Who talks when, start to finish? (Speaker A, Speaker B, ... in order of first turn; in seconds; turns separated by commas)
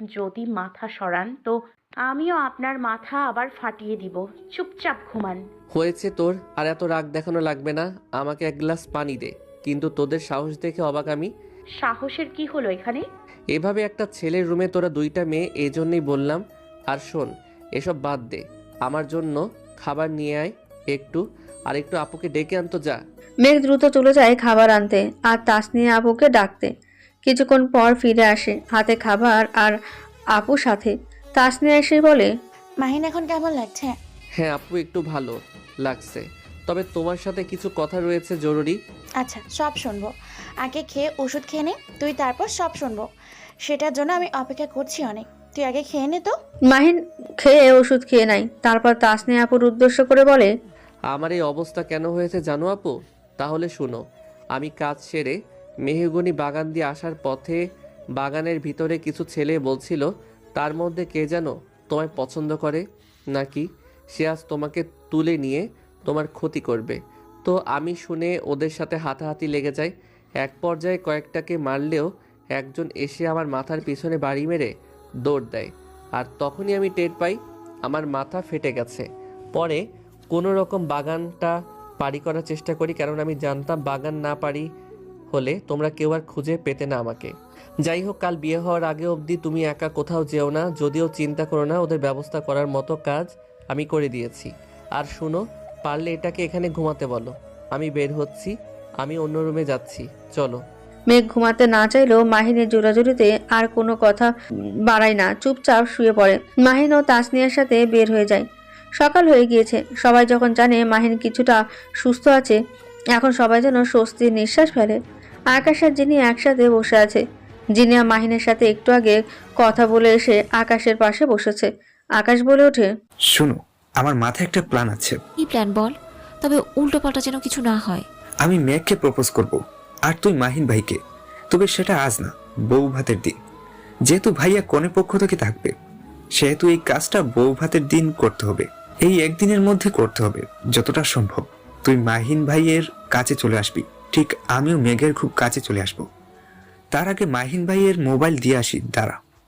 Speaker A: 0.1-1.6, Speaker A: 2.1-5.4, Speaker B: 5.7-11.3, Speaker A: 11.8-13.1, Speaker B: 13.5-23.0, Speaker C: 23.4-26.7, Speaker C: 27.2-29.8, Speaker C: 30.4-32.3, Speaker D: 32.8-34.0, Speaker B: 34.4-38.8, Speaker D: 39.2-43.1, Speaker D: 43.6-46.4, Speaker C: 46.7-50.5, Speaker B: 51.1-54.0, Speaker B: 54.5-57.6, Speaker B: 58.2-74.7, Speaker B: 75.2-84.7, Speaker B: 85.3-87.3, Speaker B: 87.8-100.6, Speaker C: 101.1-104.3, Speaker C: 104.9-108.4, Speaker C: 109.0-112.6, Speaker C: 113.2-115.0, Speaker C: 115.5-117.2, Speaker C: 117.8-121.7, Speaker C: 122.2-122.9, Speaker E: 123.3-125.2, Speaker F: 125.4-128.1, Speaker E: 128.4-131.0, Speaker E: 131.5-133.4, Speaker E: 134.1-135.7, Speaker E: 136.4-146.1, Speaker E: 146.9-149.2